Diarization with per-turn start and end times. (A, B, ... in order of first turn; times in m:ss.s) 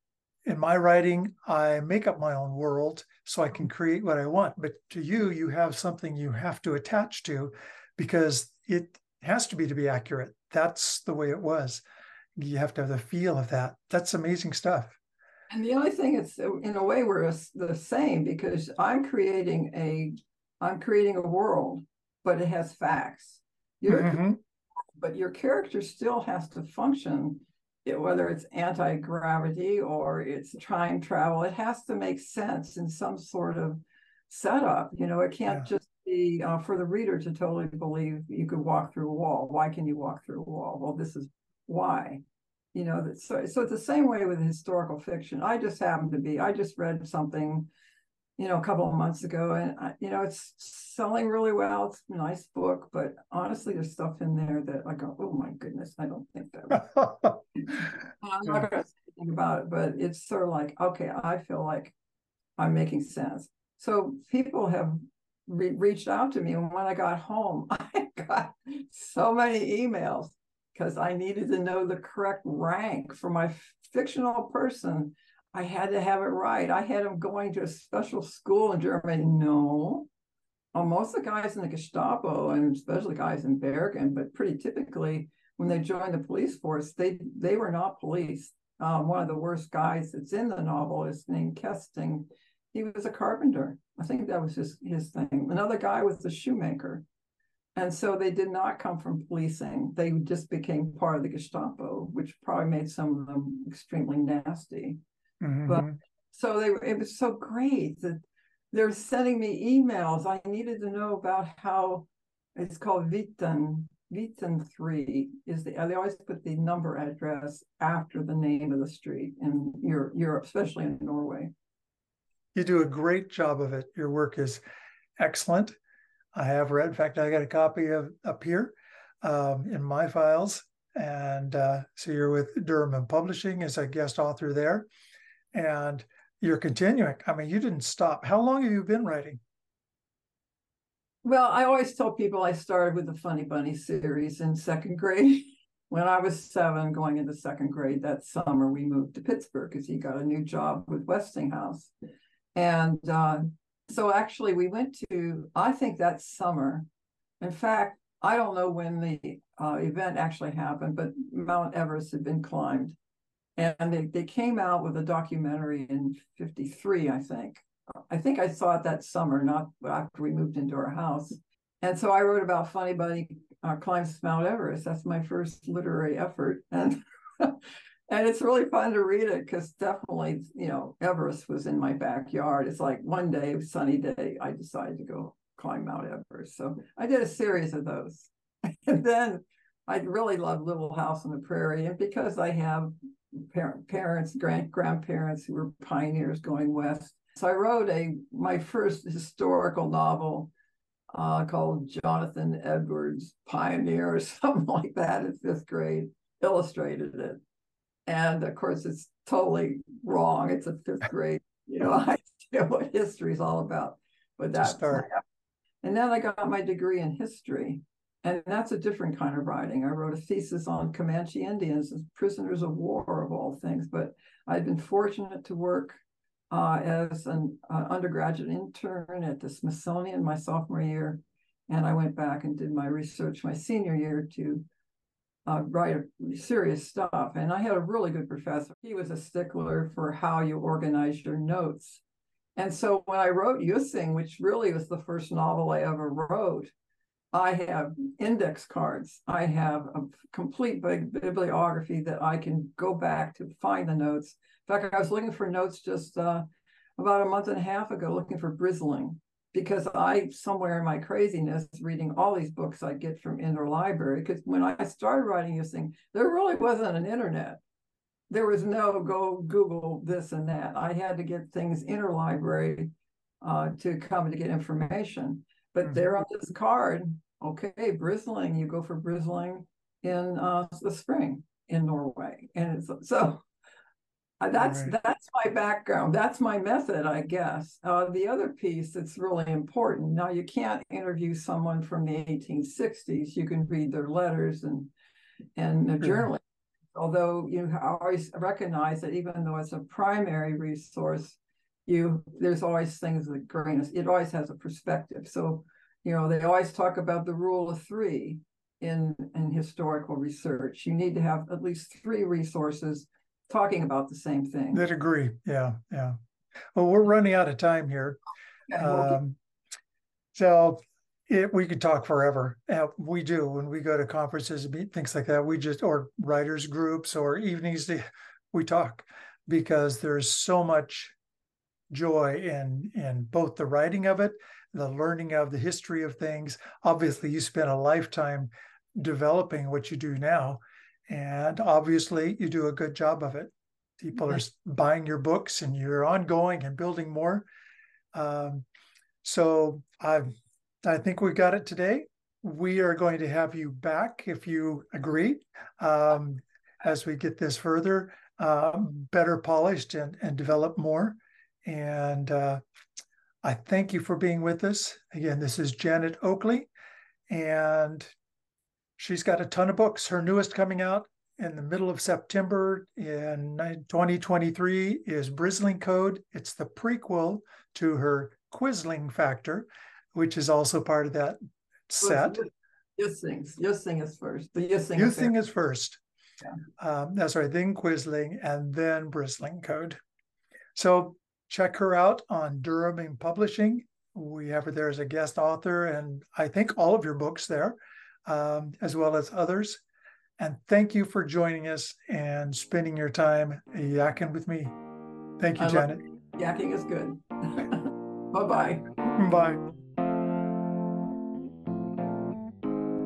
0:00.5-0:11.8 A
0:12.4-0:15.0 A
0:15.5-0:24.2 B
0:23.9-0:24.4 A
0:25.0-0:42.2 B
0:42.7-0:47.7 B
0:48.4-1:02.0 B
1:02.6-1:20.1 B
1:20.7-1:37.0 B
1:37.8-1:45.0 B
1:45.4-1:46.0 A
1:45.6-1:48.2 B
1:48.7-2:01.5 B
2:02.6-2:04.6 A
2:05.2-2:05.7 A
2:06.3-2:14.9 A
2:15.5-2:19.4 A
2:21.2-2:31.9 B
2:32.6-2:36.9 B
2:37.4-2:43.0 B
2:43.6-3:20.5 B
3:21.1-3:27.4 B
3:28.1-3:35.2 B
3:34.6-3:35.1 A
3:35.8-3:54.7 B
3:55.5-4:02.0 B
4:02.6-4:06.7 B
4:07.3-4:16.4 B
4:17.0-4:27.6 B
4:28.3-4:43.4 B
4:44.4-4:54.9 B
4:44.6-4:44.9 A
4:55.6-4:56.4 B
4:56.0-4:56.3 A
4:56.9-5:14.8 B
5:14.7-5:16.2 A
5:16.8-5:18.2 A
5:18.7-5:19.2 B
5:18.8-5:19.4 A
5:20.3-5:31.2 A
5:31.9-5:47.4 A
5:48.1-5:48.6 A
5:49.2-5:50.3 A
5:50.8-6:02.6 A
6:03.4-6:06.7 A
6:07.3-6:08.1 A
6:09.0-6:21.4 A
6:21.9-6:22.5 A
6:22.0-6:25.4 B
6:25.0-6:26.0 A
6:26.8-6:30.0 A
6:30.8-6:39.8 A
6:40.4-6:44.8 A
6:45.4-6:46.0 A
6:45.6-6:48.9 B
6:49.2-6:49.6 A